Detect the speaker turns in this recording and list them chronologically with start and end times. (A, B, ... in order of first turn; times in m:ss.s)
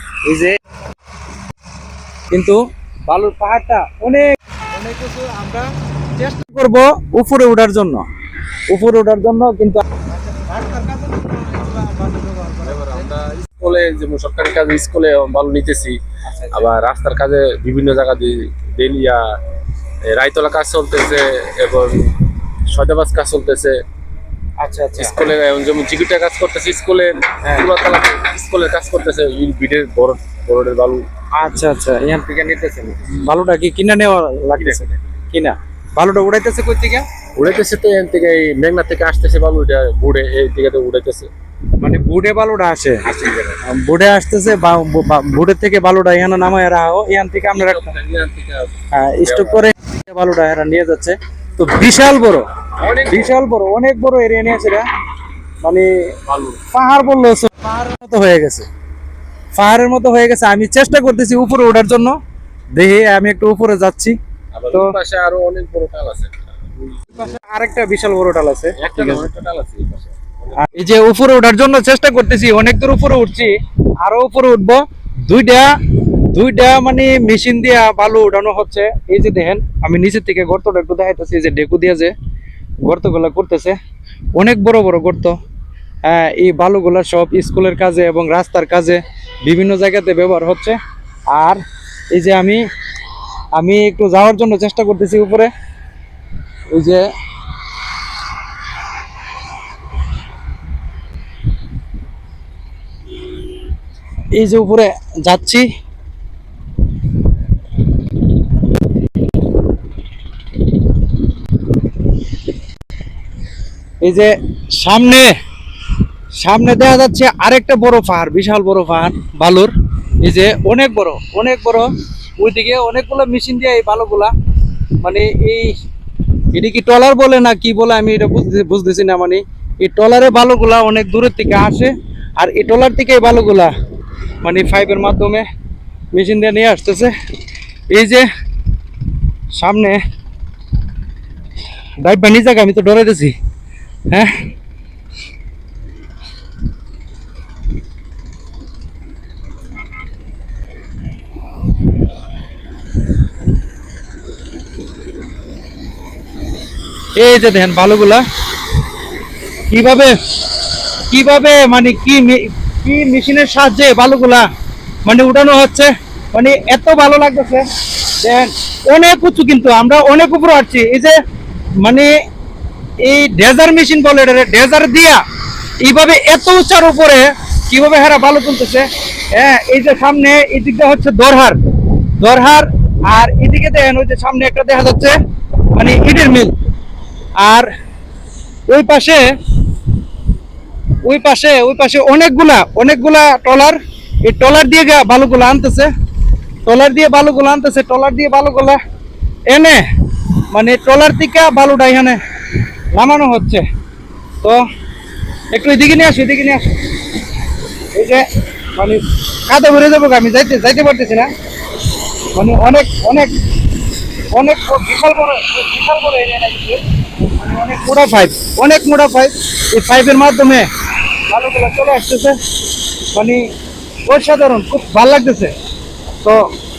0:00.2-0:00.6 A
0:02.3-0:08.1 A
0:08.7-0:13.1 A
0:12.6-0:16.0 B
0:16.3-0:16.7 A
0:16.5-0:19.3 B
0:20.1-0:23.8 B
0:24.6-0:25.3 A
0:25.0-0:31.1 B
0:27.4-0:27.7 A
0:31.4-0:37.1 A
0:34.6-0:35.0 B
0:37.4-0:41.3 B
0:41.8-0:48.0 A
0:43.1-0:43.5 B
0:47.5-0:49.6 B
0:48.9-0:52.5 A
0:52.8-0:53.4 B
0:53.1-0:54.9 A
0:55.6-0:56.2 A
0:56.2-0:56.7 B
0:56.7-0:58.7 A
0:59.6-1:02.2 A
1:02.8-1:04.2 A
1:04.5-1:07.2 B
1:07.1-1:09.3 A
1:08.8-1:10.6 B
1:10.6-1:22.2 A
1:22.8-1:23.8 A
1:24.4-1:25.4 A
1:26.0-1:30.8 A
1:31.3-1:32.6 A
1:33.6-1:35.5 A
1:36.7-1:37.1 A
1:44.4-1:45.7 A
1:54.0-1:55.3 A
1:56.4-2:04.3 A
2:05.0-2:05.8 A
2:06.5-2:13.7 A
2:14.4-2:15.5 A
2:16.1-2:17.1 A
2:17.9-2:18.3 A
2:19.5-2:20.0 A
2:22.0-2:23.4 A
2:24.1-2:24.4 A
2:37.2-2:38.2 A
2:39.7-2:40.2 A
2:41.1-2:44.5 A
2:45.0-2:51.2 A
2:51.8-2:52.1 A
2:53.0-2:55.2 A
2:55.8-3:05.2 A
3:05.7-3:06.6 A
3:07.4-3:07.7 A
3:08.7-3:09.3 A
3:11.0-3:15.9 A
3:16.6-3:18.8 A
3:19.5-3:19.8 A
3:20.5-3:22.2 A
3:22.9-3:23.7 A
3:25.5-3:26.8 A
3:27.9-3:31.3 A
3:32.3-3:33.3 A
3:34.3-3:40.7 A
3:41.3-3:42.4 A
3:43.1-3:43.5 A
3:44.1-3:45.5 A